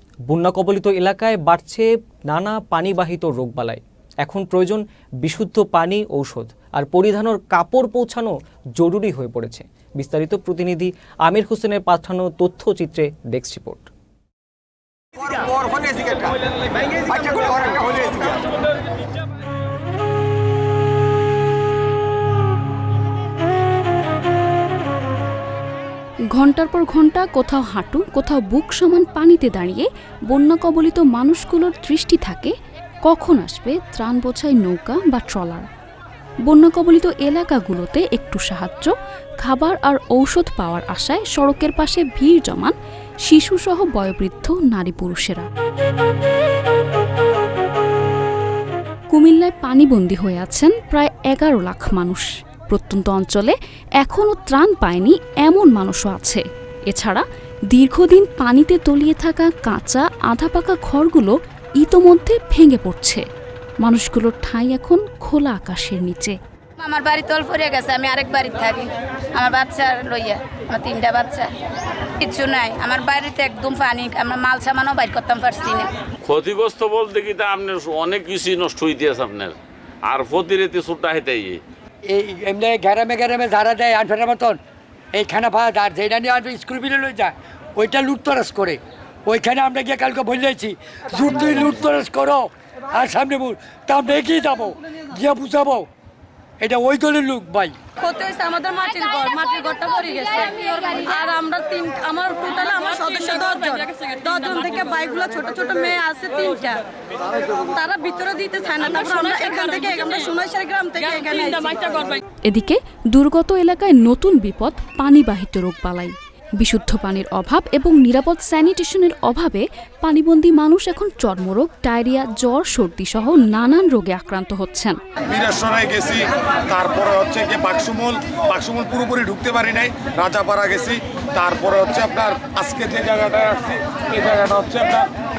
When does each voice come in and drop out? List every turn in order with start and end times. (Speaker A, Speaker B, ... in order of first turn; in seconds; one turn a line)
Speaker A: 0.3-13.9
Speaker B: 26.3-32.5
Speaker B: 33.0-35.7
Speaker B: 36.5-42.7
Speaker B: 43.2-45.5
Speaker B: 49.1-63.2
Speaker B: 63.8-66.3
Speaker C: 66.8-71.5
Speaker C: 72.2-75.9
Speaker D: 76.2-81.6
Speaker E: 82.1-84.6
Speaker E: 85.1-95.9
Speaker E: 96.6-97.7
Speaker F: 98.0-106.8
Speaker F: 107.4-112.1
Speaker B: 112.4-125.0
Speaker G: 125.3-135.1